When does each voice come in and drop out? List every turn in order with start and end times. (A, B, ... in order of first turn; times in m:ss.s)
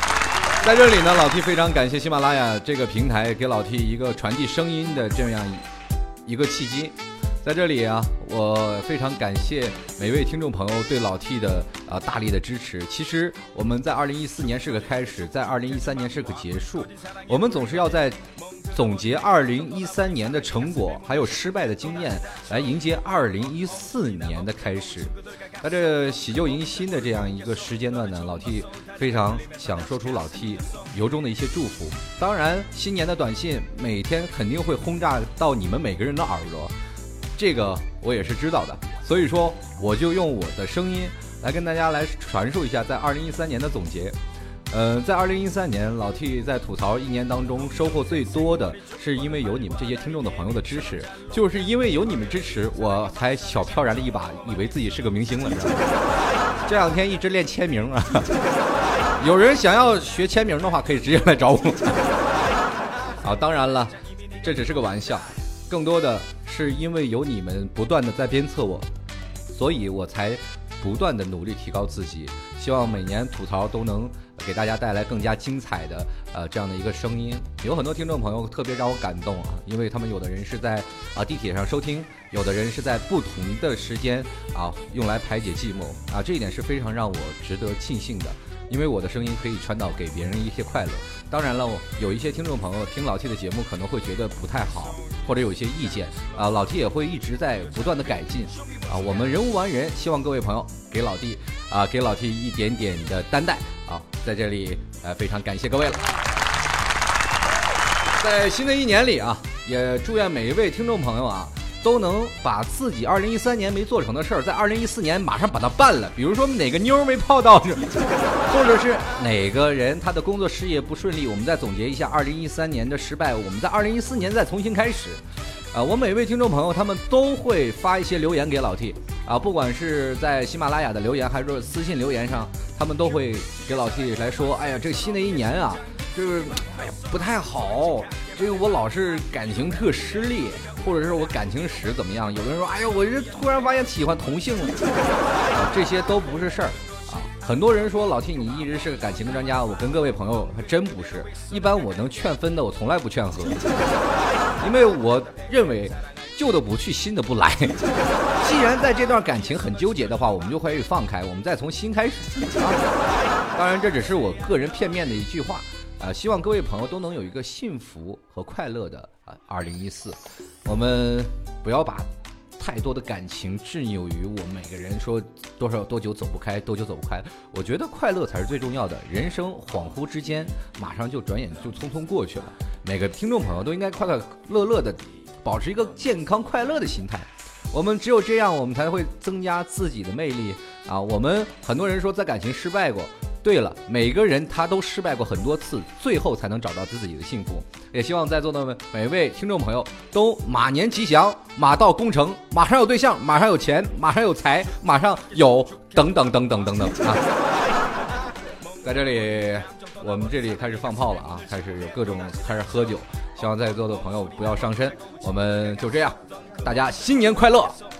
0:00.6-0:05.7 A
0:06.2-0:18.2 A
0:18.7-0:36.7 A
0:37.4-0:44.2 A
0:44.7-0:55.9 A
0:56.6-0:58.4 A
0:59.2-1:02.2 A
1:03.2-1:08.9 A
1:09.5-1:46.1 A
1:48.2-1:57.9 A
1:58.4-2:24.8 A
2:25.5-2:33.6 A
2:34.6-2:42.9 A
2:43.5-3:27.3 A
3:28.8-3:37.8 A